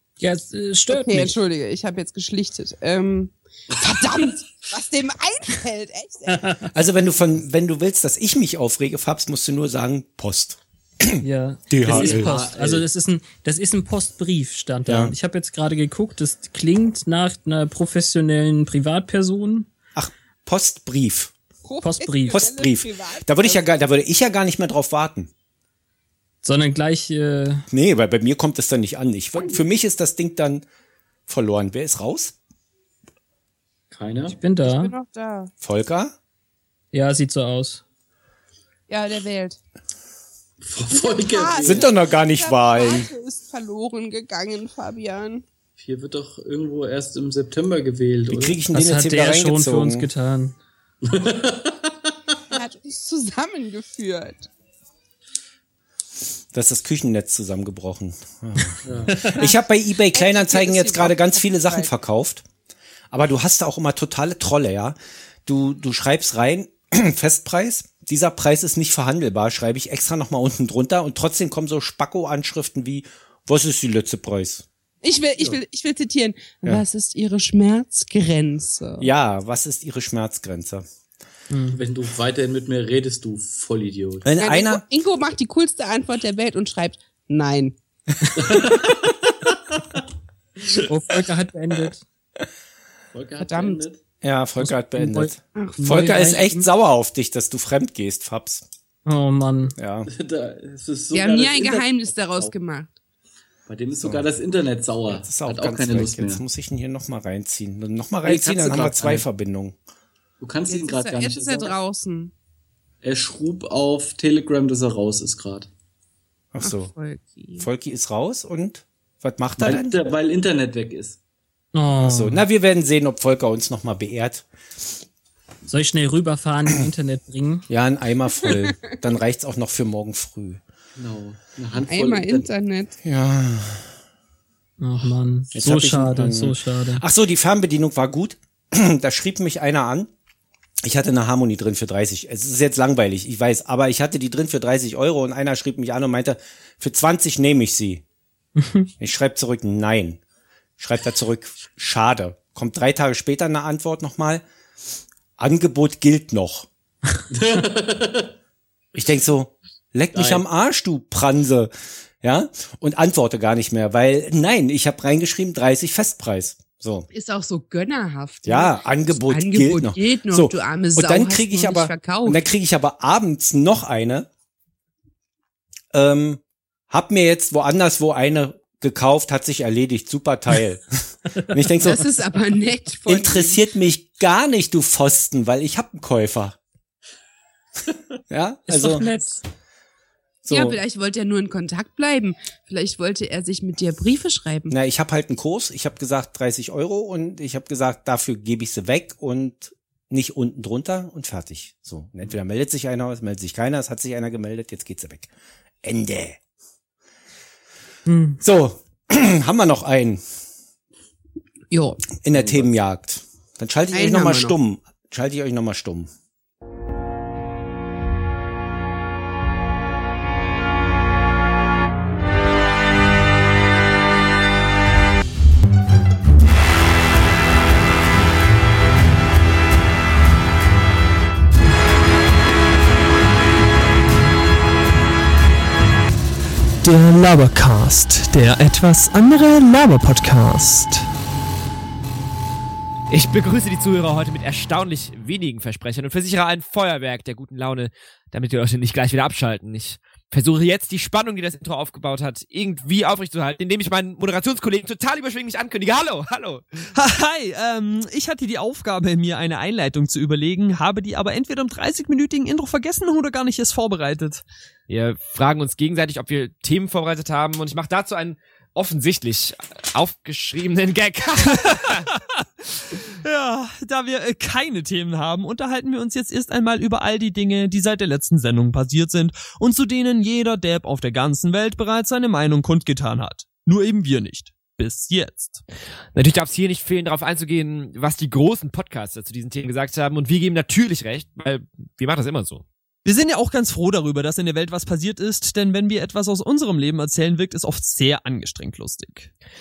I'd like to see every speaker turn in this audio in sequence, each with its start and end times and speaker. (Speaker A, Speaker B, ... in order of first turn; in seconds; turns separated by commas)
Speaker A: 0.2-1.4, Speaker B: 0.9-6.5, Speaker A: 6.3-6.7, Speaker C: 6.7-12.3, Speaker A: 11.2-19.7, Speaker D: 11.8-12.9, Speaker C: 14.9-15.1, Speaker C: 19.9-21.3, Speaker B: 21.6-23.6, Speaker A: 21.8-22.4, Speaker C: 22.3-25.3, Speaker A: 26.4-27.6, Speaker C: 27.7-30.6, Speaker C: 31.3-32.4, Speaker D: 33.9-34.4, Speaker A: 34.3-34.9, Speaker B: 34.6-35.5, Speaker C: 35.6-36.1, Speaker A: 36.9-37.8, Speaker B: 38.9-39.6, Speaker D: 40.6-41.9, Speaker B: 40.9-45.4, Speaker C: 41.6-43.1, Speaker D: 45.8-48.6, Speaker C: 48.3-50.1, Speaker A: 48.7-50.6, Speaker D: 51.0-52.1, Speaker B: 52.5-54.5, Speaker C: 56.5-62.4, Speaker D: 58.9-59.2, Speaker B: 60.1-61.9, Speaker C: 63.1-74.7, Speaker B: 75.0-79.1, Speaker C: 79.0-80.8, Speaker A: 81.5-81.8, Speaker D: 81.7-84.3, Speaker C: 84.2-84.8, Speaker B: 84.4-87.8, Speaker D: 88.4-89.1, Speaker A: 90.9-92.0, Speaker D: 93.1-94.0, Speaker B: 93.4-93.8, Speaker C: 94.2-98.7, Speaker A: 94.6-96.6, Speaker B: 95.6-96.3, Speaker A: 99.1-99.8, Speaker C: 99.8-100.1, Speaker D: 100.1-102.5, Speaker B: 101.1-102.9, Speaker D: 103.7-106.4, Speaker C: 105.1-109.8, Speaker D: 108.2-109.2, Speaker D: 110.4-111.8, Speaker B: 110.7-112.3, Speaker D: 113.0-115.7, Speaker C: 116.5-116.9, Speaker B: 116.6-117.7, Speaker C: 117.6-120.0, Speaker D: 119.6-121.2, Speaker A: 121.7-122.4, Speaker C: 122.0-124.5, Speaker A: 125.7-127.7, Speaker C: 127.7-130.6, Speaker D: 131.0-132.4, Speaker B: 131.9-132.9, Speaker C: 133.0-133.9, Speaker A: 134.8-137.0, Speaker C: 135.5-140.1, Speaker C: 140.8-148.0, Speaker C: 149.0-150.2, Speaker C: 150.8-154.4, Speaker C: 155.4-156.7, Speaker D: 157.3-158.3, Speaker C: 158.9-167.1, Speaker D: 160.1-160.4, Speaker B: 167.1-172.4, Speaker C: 168.4-174.3, Speaker C: 175.9-182.0, Speaker B: 181.8-183.6, Speaker C: 183.1-186.6, Speaker C: 188.3-189.1, Speaker A: 188.7-189.4, Speaker C: 190.4-190.8, Speaker B: 190.5-194.7, Speaker C: 194.7-205.3, Speaker C: 205.8-206.4, Speaker A: 208.1-208.4, Speaker C: 208.4-210.2, Speaker B: 211.7-212.0, Speaker C: 212.2-216.1, Speaker D: 212.3-212.7, Speaker B: 213.9-214.6, Speaker E: 236.8-241.1, Speaker F: 243.1-256.9, Speaker E: 256.9-264.4, Speaker F: 264.9-272.0, Speaker E: 271.9-272.2, Speaker E: 273.2-285.6, Speaker F: 286.1-292.6, Speaker E: 293.1-299.3